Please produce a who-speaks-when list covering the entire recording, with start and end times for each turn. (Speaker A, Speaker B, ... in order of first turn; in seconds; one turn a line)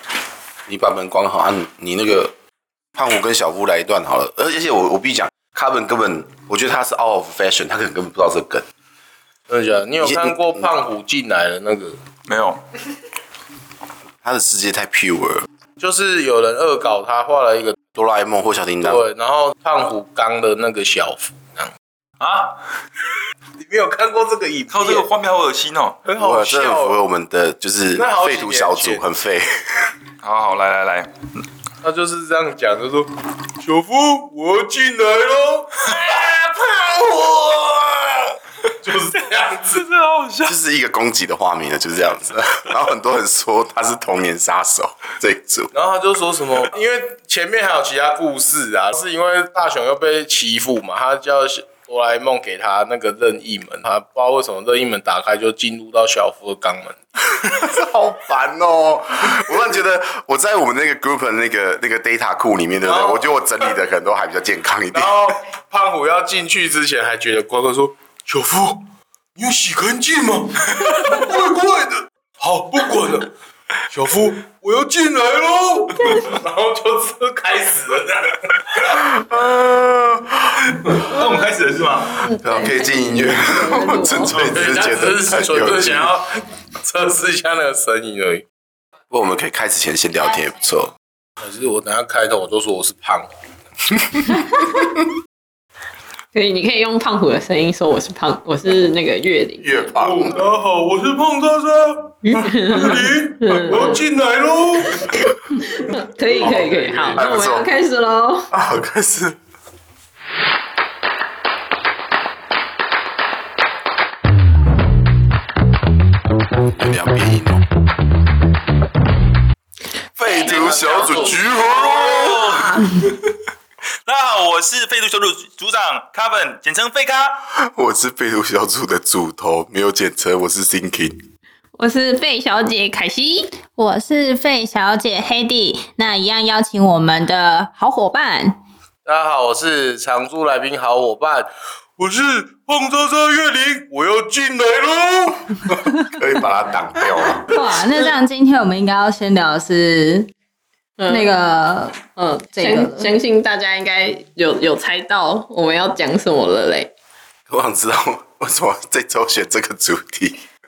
Speaker A: 0.7-2.3
Speaker A: 2.9-8.7
Speaker B: 9.5-12.0
Speaker A: 10.0-10.6
Speaker C: 12.3-12.6
Speaker A: 14.2-15.4
Speaker B: 15.8-17.8
Speaker A: 17.9-19.0
Speaker B: 18.8-21.7
Speaker C: 22.2-22.6
Speaker B: 23.6-25.1
Speaker C: 24.7-26.0
Speaker B: 26.0-27.0
Speaker A: 26.2-29.7
Speaker B: 27.9-29.0
Speaker C: 30.2-31.1
Speaker B: 31.8-39.8
Speaker C: 39.7-40.5
Speaker A: 40.4-45.7
Speaker B: 45.7-57.0
Speaker A: 57.4-65.2
Speaker B: 62.8-63.3
Speaker B: 64.9-68.8
Speaker B: 69.3-73.3
Speaker B: 73.9-79.1
Speaker A: 79.3-80.4
Speaker C: 80.7-82.2
Speaker D: 82.1-84.4
Speaker A: 82.4-86.1
Speaker B: 84.3-88.4
Speaker A: 89.1-90.9
Speaker B: 91.4-93.3
Speaker D: 96.3-99.8
Speaker A: 99.6-100.4
Speaker B: 100.0-105.2
Speaker D: 102.2-104.0
Speaker D: 105.6-108.5
Speaker B: 106.2-107.2
Speaker A: 107.2-107.7
Speaker A: 108.5-109.3
Speaker A: 116.7-117.6
Speaker A: 120.2-122.4
Speaker B: 120.3-122.3
Speaker C: 121.6-123.3
Speaker E: 122.3-122.9
Speaker C: 124.0-127.4
Speaker A: 127.5-131.2
Speaker D: 131.8-133.6
Speaker E: 133.7-138.6
Speaker B: 139.0-145.6
Speaker A: 146.1-147.5
Speaker E: 147.5-150.3
Speaker D: 151.0-151.3
Speaker E: 151.1-153.1
Speaker D: 152.1-156.9
Speaker A: 157.5-160.4